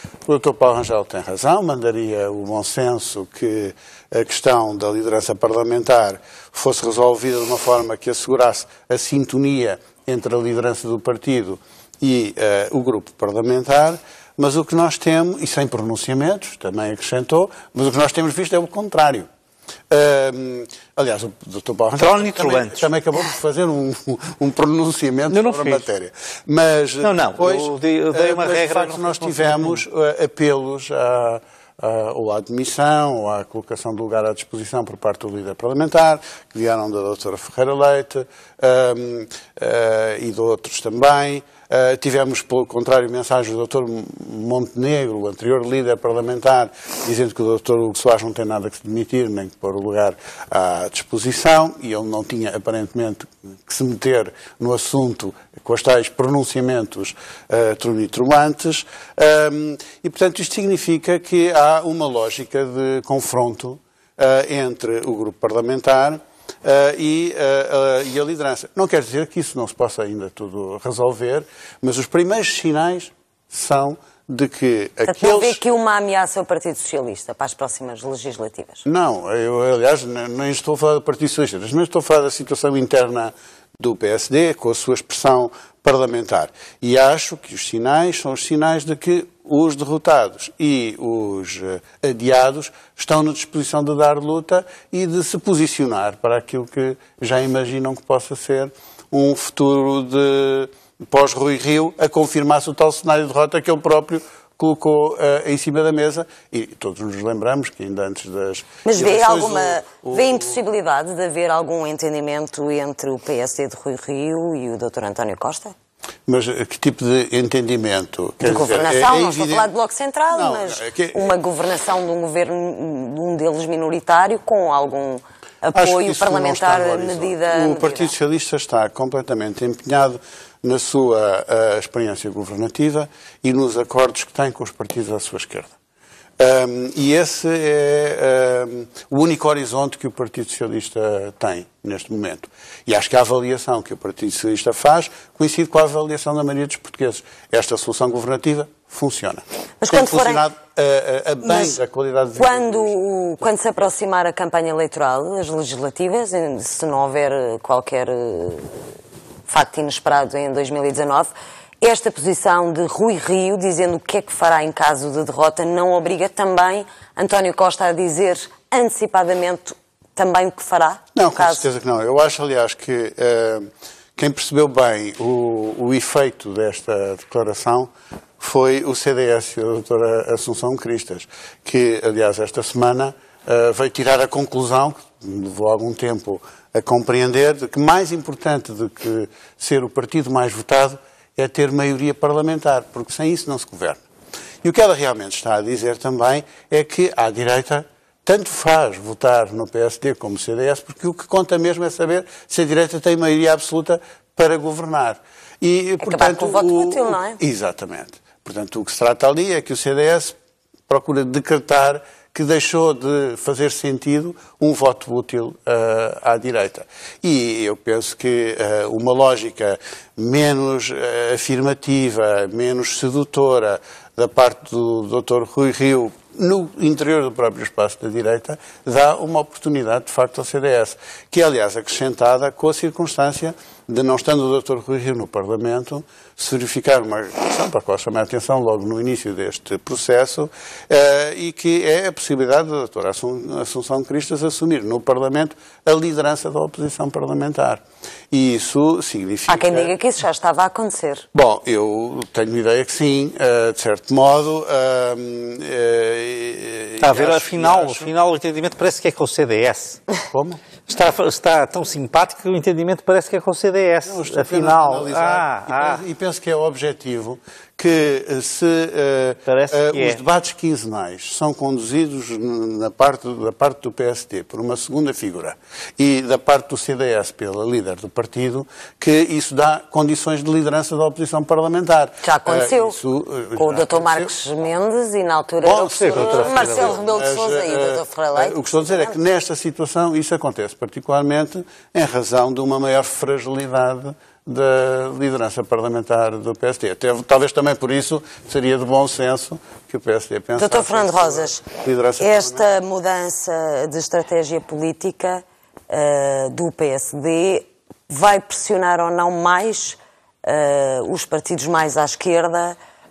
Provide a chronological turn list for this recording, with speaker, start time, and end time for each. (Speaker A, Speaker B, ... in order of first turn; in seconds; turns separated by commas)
Speaker A: 0.3-19.3, Speaker A: 19.9-75.6, Speaker B: 22.0-22.9, Speaker B: 25.3-25.8, Speaker B: 27.0-29.8, Speaker C: 75.1-78.8, Speaker A: 78.9-110.6, Speaker C: 108.8-115.7, Speaker A: 116.3-119.7, Speaker C: 118.4-128.1, Speaker A: 120.3-121.4, Speaker A: 125.8-135.7, Speaker A: 136.4-153.0, Speaker C: 149.8-150.5, Speaker C: 151.4-151.8, Speaker C: 152.4-158.7, Speaker C: 159.5-171.7, Speaker A: 171.2-194.0, Speaker A: 194.6-210.3, Speaker C: 206.0-207.4, Speaker A: 210.9-249.9, Speaker C: 249.5-251.3, Speaker A: 251.3-258.1, Speaker B: 257.0-260.0, Speaker A: 260.3-260.6, Speaker B: 260.9-266.0, Speaker A: 264.1-284.4, Speaker B: 269.5-270.2, Speaker C: 282.2-283.0, Speaker C: 283.6-289.1, Speaker A: 285.6-302.6, Speaker B: 285.9-287.0, Speaker C: 300.6-301.7, Speaker C: 302.2-312.8